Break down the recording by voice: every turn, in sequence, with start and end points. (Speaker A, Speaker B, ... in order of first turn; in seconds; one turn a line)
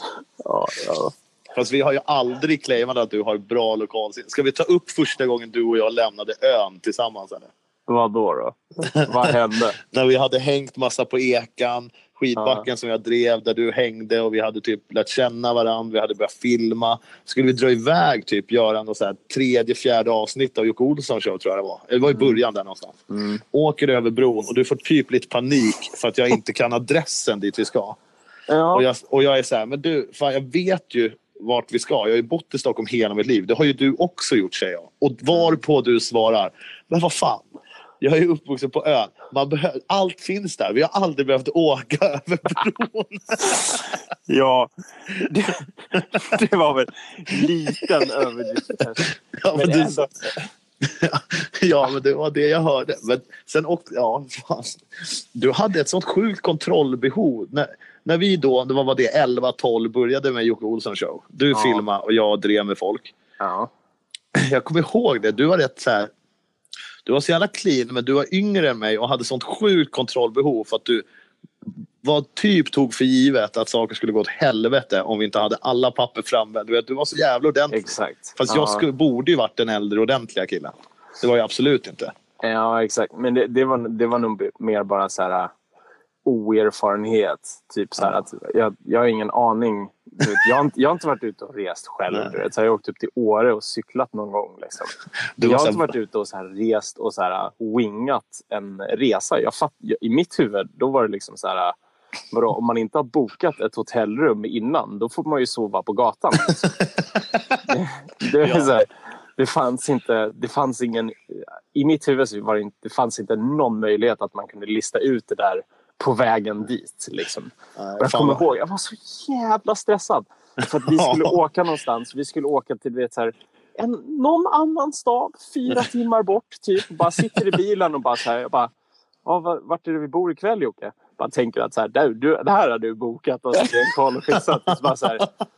Speaker A: 0.4-1.1
Speaker B: 1.5-7.5
Speaker A: 7.9-9.8
Speaker B: 8.9-28.0
Speaker A: 12.3-12.7
Speaker A: 22.1-22.4
Speaker A: 23.1-23.4
Speaker A: 28.5-28.9
Speaker B: 28.7-37.5
Speaker B: 38.0-43.9
Speaker A: 44.3-50.3
Speaker B: 47.4-47.8
Speaker B: 49.4-50.1
Speaker B: 50.8-63.1
Speaker A: 61.5-61.8
Speaker A: 63.4-63.7
Speaker B: 64.3-66.1
Speaker B: 67.0-71.0
Speaker B: 72.0-82.1
Speaker A: 77.7-78.8
Speaker A: 82.4-85.5
Speaker A: 86.2-101.8
Speaker B: 92.1-92.3
Speaker B: 95.4-95.9
Speaker A: 102.3-106.7
Speaker A: 107.7-128.7
Speaker B: 108.4-108.7
Speaker B: 117.8-118.4
Speaker B: 120.9-121.3
Speaker A: 129.2-135.2